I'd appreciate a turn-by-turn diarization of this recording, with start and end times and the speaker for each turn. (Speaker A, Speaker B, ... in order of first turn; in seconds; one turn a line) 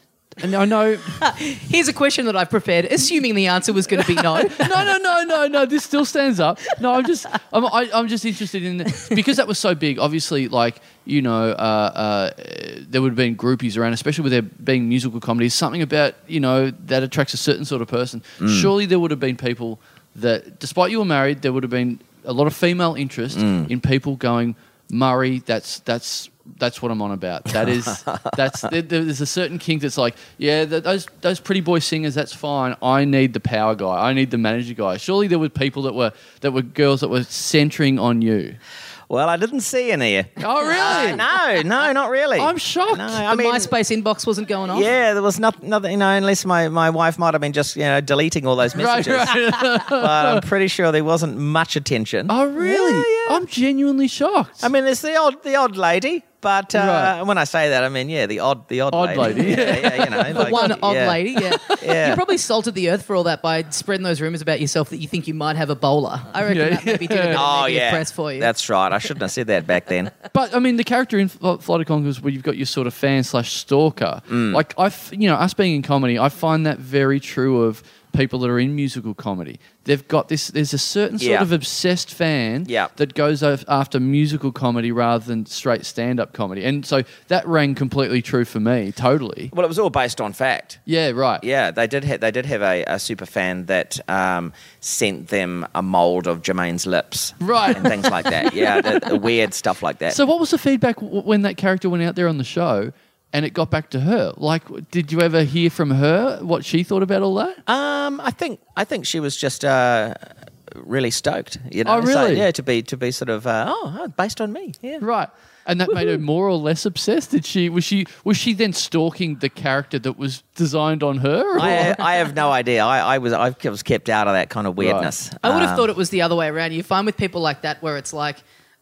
Speaker A: 0.4-1.2
Speaker B: 1.1-4.9
Speaker A: 4.2-38.6
Speaker C: 18.4-18.7
Speaker C: 23.3-23.7
Speaker C: 27.6-28.4
Speaker C: 39.1-43.7
Speaker A: 40.4-41.3
Speaker A: 42.4-43.2
Speaker B: 43.2-44.9
Speaker C: 44.7-53.4
Speaker A: 48.7-50.5
Speaker A: 52.3-54.7
Speaker C: 54.6-62.2
Speaker A: 56.7-57.1
Speaker A: 58.9-60.8
Speaker B: 59.2-68.5
Speaker A: 61.3-61.9
Speaker A: 66.5-67.4
Speaker C: 67.3-70.1
Speaker A: 70.3-89.5
Speaker C: 74.3-74.6
Speaker C: 81.2-81.5
Speaker C: 89.5-90.8
Speaker A: 90.9-91.4
Speaker C: 91.4-100.2
Speaker A: 97.4-99.2
Speaker A: 100.1-107.6
Speaker C: 107.7-115.0
Speaker A: 111.8-112.5
Speaker A: 115.0-122.0
Speaker C: 121.5-125.9
Speaker A: 124.8-125.1
Speaker B: 125.4-128.4